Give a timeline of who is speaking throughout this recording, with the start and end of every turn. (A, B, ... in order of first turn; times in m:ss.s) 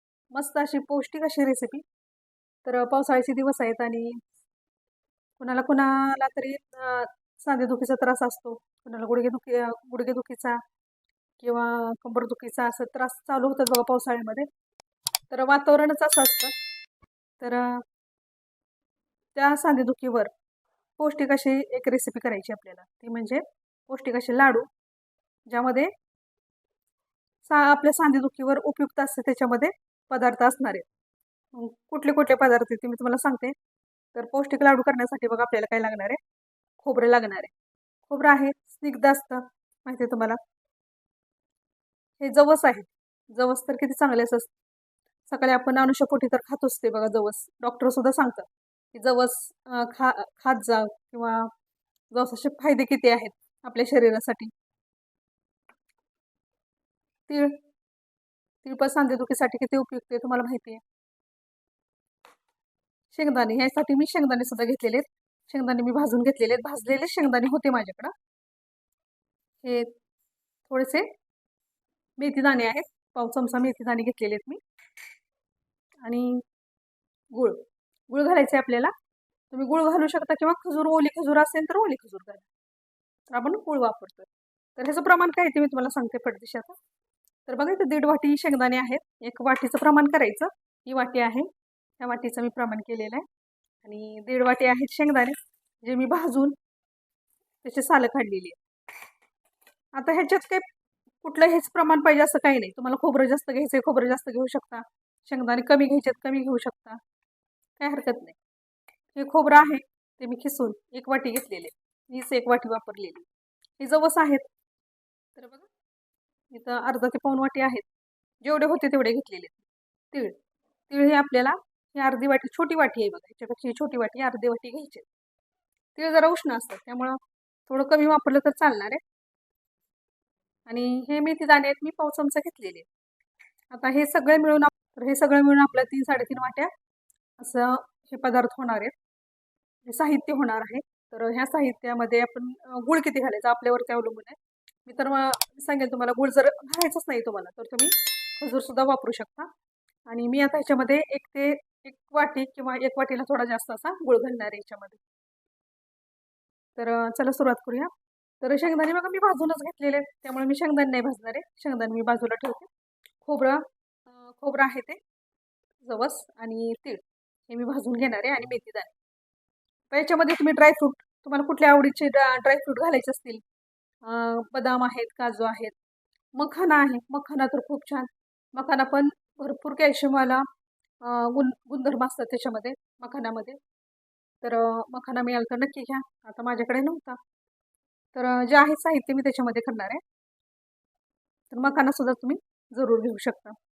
0:00.3-0:01.8 A
0:02.6-0:04.2 A
0:05.4-0:10.6 A
0:11.4-0:14.5 A
0:15.3-0:16.5 A
0:17.4-0:17.8 A
0:19.3-0:20.3 A
0:21.0-0:24.7 A
0:25.5-0:25.9 A
0:27.4-0:30.8 A
0:31.5-0:33.5 A
0:34.1-0:36.2 A
0:36.8-0:37.5 A
0:38.1-0:40.4 A
0:42.2-0:44.5 A
0:45.3-0:51.5 A
0:52.1-0:54.5 A
0:57.3-0:57.6 A
0:58.6-1:00.8 A
1:03.1-1:08.1 A
1:09.6-1:09.9 A
1:10.7-1:11.1 A
1:12.2-1:14.6 A
1:16.0-1:16.4 A
1:17.3-1:18.9 A
1:19.5-1:22.5 A
1:23.3-1:26.8 A
1:27.5-1:33.3 A
1:33.8-1:36.6 A
1:37.6-1:38.6 A
1:39.9-1:40.7 A
1:41.2-1:47.0 A
1:47.8-1:48.4 A
1:49.1-1:53.3 A
1:53.8-1:54.5 A
1:55.4-1:55.7 A
1:56.5-1:57.9 A
1:58.4-2:00.4 A
2:00.9-2:05.1 A
2:06.0-2:09.0 A
2:10.7-2:12.9 A
2:13.7-2:16.7 A
2:17.4-2:18.9 A
2:19.8-2:29.5 A
2:30.1-2:35.0 A
2:36.8-2:42.7 A
2:43.2-2:45.0 A
2:45.8-2:48.9 A
2:49.9-2:53.4 A
2:54.0-2:55.8 A
2:56.3-3:00.4 A
3:01.0-3:03.6 A
3:04.4-3:07.2 A
3:08.1-3:10.0 A
3:11.5-3:13.6 A